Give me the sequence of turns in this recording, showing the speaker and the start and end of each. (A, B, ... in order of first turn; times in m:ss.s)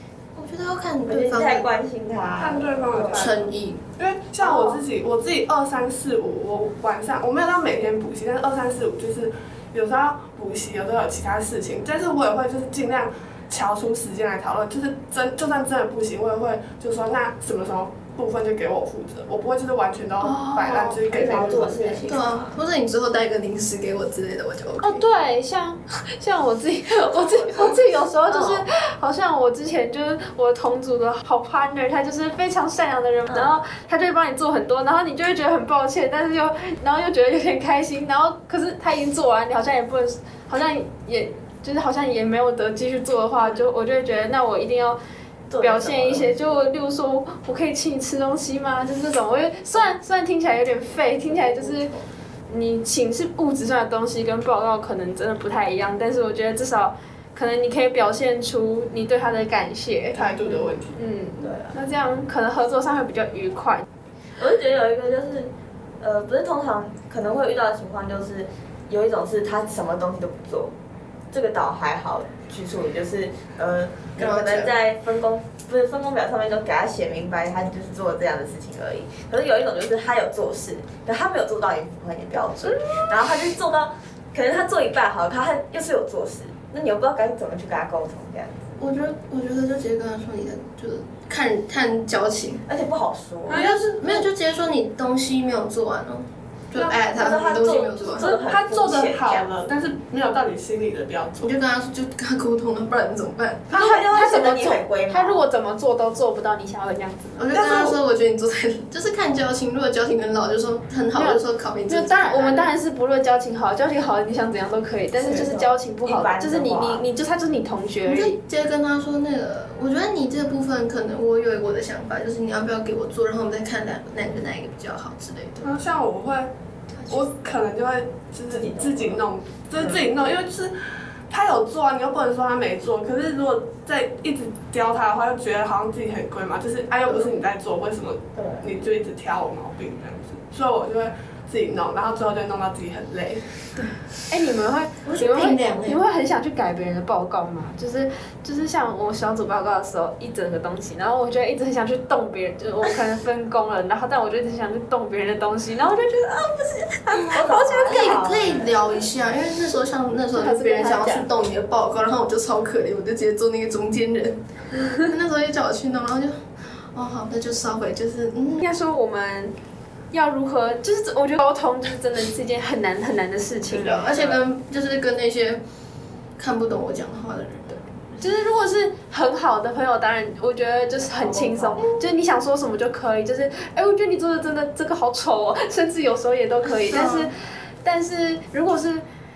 0:00.4-0:01.7 A
0:01.1-0:03.5 B
0:02.4-0:22.1 C
0:03.1-0:03.8 A
0:20.2-0:25.0 A
0:21.1-0:22.6 B
0:24.8-0:45.0 D
0:27.1-0:28.6 B
0:45.5-0:46.4 B
0:45.6-0:51.9 D
0:51.3-0:52.1 B
0:52.5-1:03.9 D
1:00.1-1:01.0 C
1:00.4-1:00.8 B
1:01.4-1:01.8 B
1:04.4-1:10.7 B
1:11.3-1:28.8 B
1:14.2-1:14.7 A
1:28.8-1:32.6 A
1:32.7-1:33.6 B
1:33.5-1:34.2 C
1:33.5-1:38.3 A
1:36.7-1:39.5 B
1:38.2-1:41.5 C
1:41.4-1:43.8 A
1:43.7-1:45.4 B
1:43.7-1:47.4 D
1:47.4-1:52.7 A
1:47.5-1:48.0 C
1:51.1-1:58.4 D
1:55.2-1:57.0 B
1:58.0-2:05.6 A
2:05.6-2:06.5 C
2:07.1-2:10.7 C
2:08.5-2:09.2 B
2:11.3-2:23.5 C
2:18.4-2:18.7 B
2:24.3-2:38.2 D
2:25.0-2:26.0 A
2:37.3-2:38.9 B
2:37.8-2:48.6 A
2:40.3-2:41.3 D
2:48.6-2:49.6 D
2:50.1-2:54.3 D
2:53.7-2:55.6 A
2:56.4-2:58.2 A
2:58.2-3:09.0 D
3:01.1-3:01.9 B
3:06.6-3:07.3 A